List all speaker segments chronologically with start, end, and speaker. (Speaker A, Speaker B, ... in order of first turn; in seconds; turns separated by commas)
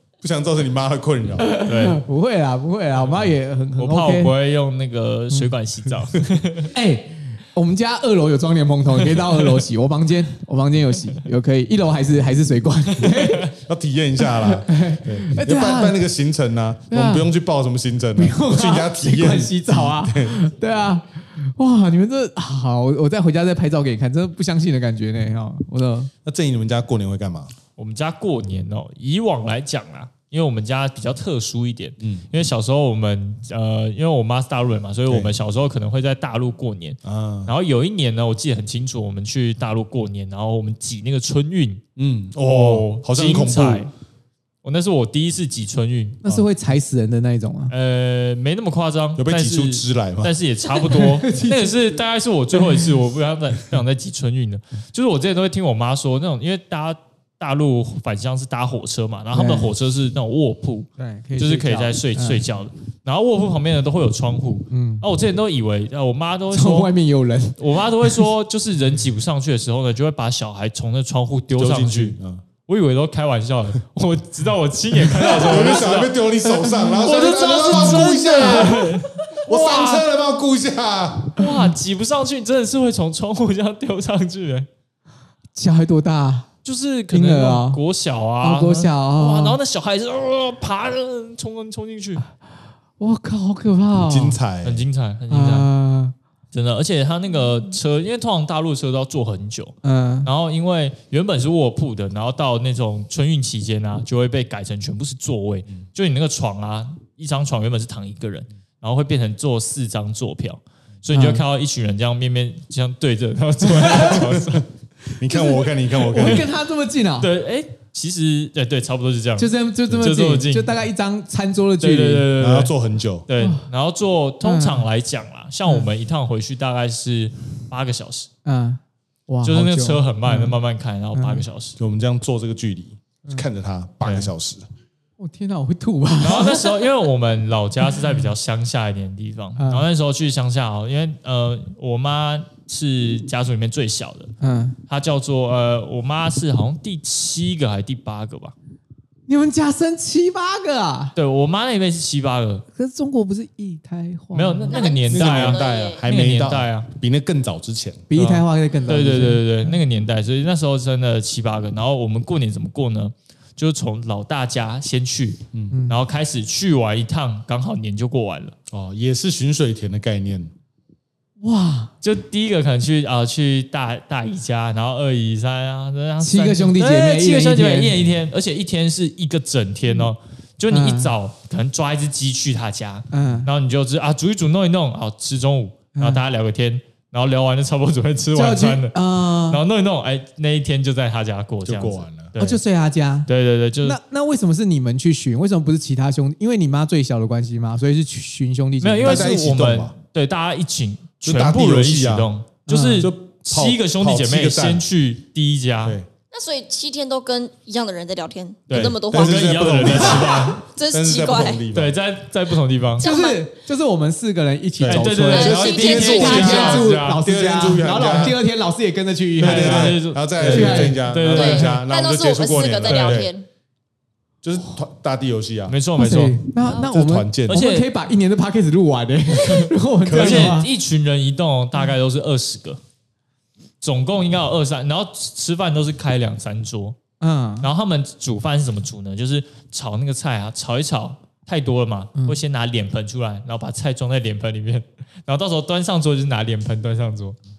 Speaker A: 0.2-1.5, Speaker B: 1.4-4.3, Speaker C: 1.6-2.0, Speaker C: 3.8-6.7, Speaker B: 6.7-13.5, Speaker A: 13.5-20.4, Speaker B: 14.3-16.0, Speaker B: 16.9-17.3, Speaker B: 18.1-26.1, Speaker A: 26.2-27.5, Speaker C: 27.8-41.8, Speaker A: 35.1-35.3, Speaker A: 37.0-37.5, Speaker A: 42.0-43.9, Speaker C: 42.4-43.9, Speaker C: 44.6-46.2, Speaker B: 46.2-47.7, Speaker C: 47.7-66.9, Speaker A: 49.2-50.3, Speaker B: 50.9-51.9, Speaker B: 59.3-59.7, Speaker B: 61.0-62.4, Speaker B: 64.7-65.0, Speaker B: 66.5-67.6, Speaker C: 67.6-76.2, Speaker A: 71.5-72.4, Speaker B: 75.2-75.5, Speaker A: 75.2-78.9, Speaker B: 76.5-77.1, Speaker C: 77.0-80.0, Speaker B: 77.7-79.0, Speaker A: 79.5-81.5, Speaker C: 81.3-84.7, Speaker B: 85.5-86.5, Speaker C: 86.6-92.2, Speaker B: 87.1-87.8, Speaker B: 88.4-89.6, Speaker B: 93.0-94.4, Speaker A: 94.0-94.8, Speaker C: 94.6-95.7, Speaker B: 95.3-96.1, Speaker C: 96.5-114.7, Speaker B: 99.8-100.3, Speaker B: 111.1-111.4, Speaker B: 113.8-114.2, Speaker A: 114.1-114.6, Speaker A: 115.2-116.5, Speaker B: 115.3-117.3, Speaker C: 117.2-120.7, Speaker B: 119.4-122.3, Speaker C: 121.8-122.7, Speaker A: 122.3-123.3, Speaker C: 123.3-128.3, Speaker B: 123.4-123.7, Speaker B: 124.4-124.8, Speaker B: 128.4-130.6, Speaker C: 129.4-131.8, Speaker B: 131.1-131.4, Speaker A: 131.8-134.7, Speaker C: 134.0-134.3, Speaker B: 135.2-136.7, Speaker C: 136.2-144.3, Speaker B: 139.6-139.8, Speaker B: 144.4-144.8, Speaker C: 144.9-148.5, Speaker B: 149.3-151.1, Speaker C: 151.1-152.6, Speaker B: 152.7-154.8, Speaker C: 154.3-156.9, Speaker D: 154.7-156.0, Speaker A: 155.1-158.0, Speaker B: 158.1-159.7, Speaker C: 158.1-168.5, Speaker D: 158.7-159.0, Speaker B: 165.7-166.0, Speaker A: 168.7-170.5, Speaker B: 171.4-171.9, Speaker C: 172.0-192.6, Speaker B: 176.2-177.9, Speaker B: 180.7-181.1, Speaker B: 183.1-183.5, Speaker B: 185.9-186.2, Speaker B: 188.3-189.6, Speaker A: 191.6-192.3, Speaker B: 192.4-193.3, Speaker C: 193.3-194.0, Speaker B: 193.8-199.4, Speaker C: 198.8-206.0, Speaker A: 199.0-199.9, Speaker A: 201.2-202.3, Speaker B: 202.7-203.1, Speaker A: 203.0-204.9, Speaker D: 206.3-211.6, Speaker C: 208.7-210.6, Speaker A: 208.7-212.0, Speaker C: 211.7-213.1, Speaker D: 213.0-213.5, Speaker B: 213.0-221.1, Speaker A: 214.8-218.4, Speaker C: 214.9-217.2, Speaker D: 215.3-216.9, Speaker A: 219.4-223.3, Speaker C: 219.4-221.8, Speaker D: 221.3-223.5, Speaker C: 222.8-223.3, Speaker A: 224.4-225.8, Speaker C: 225.7-226.4, Speaker B: 226.0-230.7, Speaker A: 226.8-227.6, Speaker C: 227.5-227.9, Speaker A: 230.0-230.6, Speaker C: 230.1-232.8, Speaker C: 233.8-237.0, Speaker B: 237.2-237.7, Speaker C: 237.6-247.4